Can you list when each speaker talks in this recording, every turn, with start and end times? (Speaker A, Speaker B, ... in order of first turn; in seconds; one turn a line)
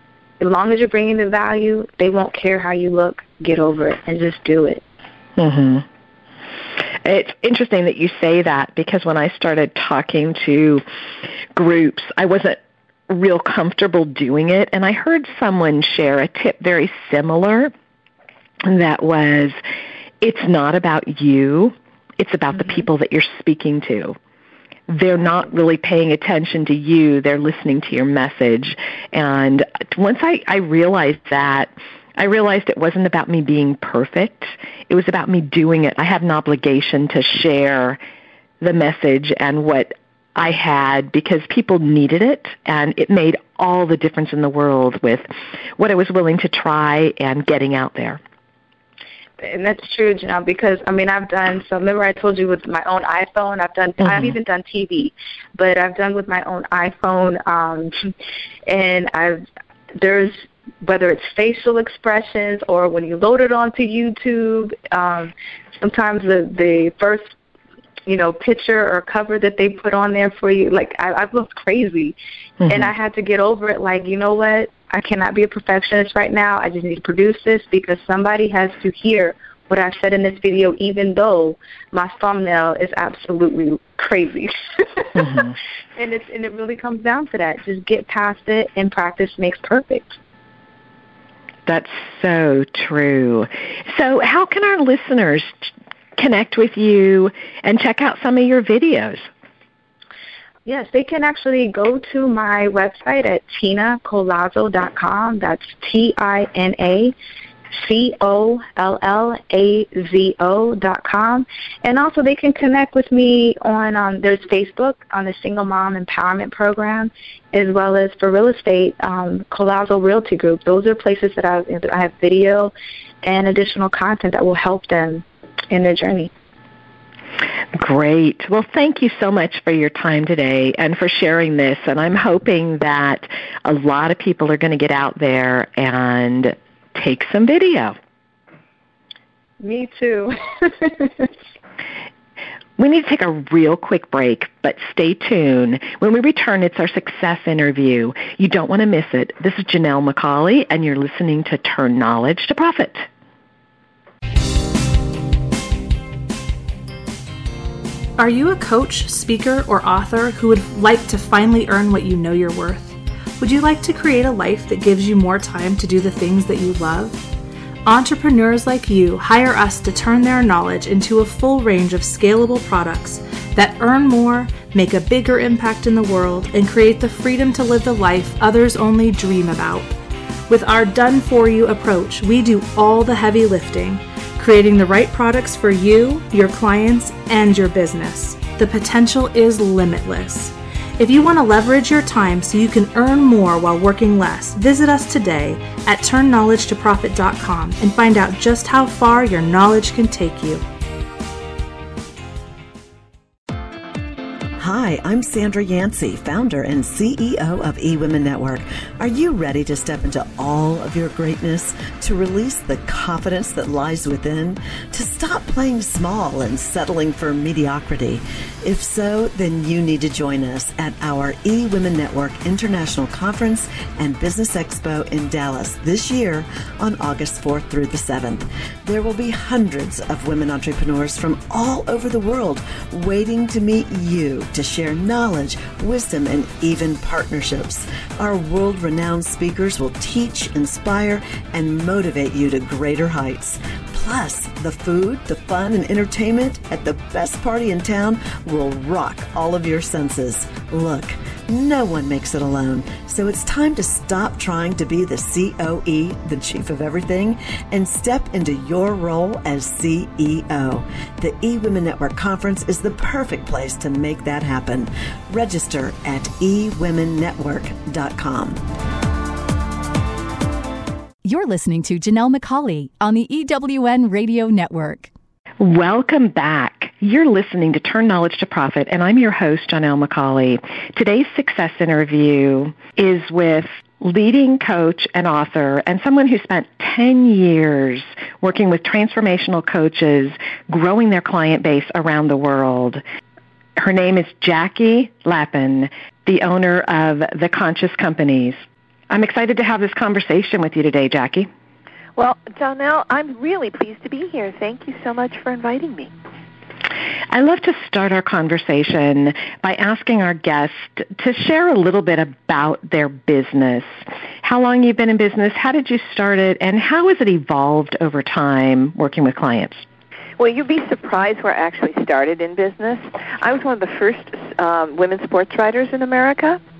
Speaker A: 0.4-4.8
Speaker B: 5.4-5.8
Speaker B: 6.8-10.8
Speaker B: 11.5-17.7
Speaker B: 18.6-19.6
Speaker B: 20.2-24.2
Speaker B: 24.9-38.0
Speaker B: 38.6-48.2
Speaker A: 49.4-58.1
Speaker A: 58.7-59.4
Speaker A: 60.0-67.3
Speaker A: 68.1-72.2
Speaker A: 72.7-90.2
Speaker B: 91.7-99.2
Speaker A: 100.7-107.2
Speaker A: 107.8-126.3
Speaker B: 127.7-138.0
Speaker A: 139.6-141.3
Speaker B: 142.8-153.1
Speaker C: 158.2-167.2
Speaker C: 167.8-179.9
Speaker C: 180.5-200.6
Speaker D: 204.6-268.6
Speaker E: 271.2-275.1
Speaker B: 275.6-293.0
Speaker B: 293.8-298.6
Speaker B: 299.1-301.5
Speaker F: 302.2-306.1
Speaker B: 307.3-313.9
Speaker B: 314.4-319.8
Speaker F: 320.4-326.6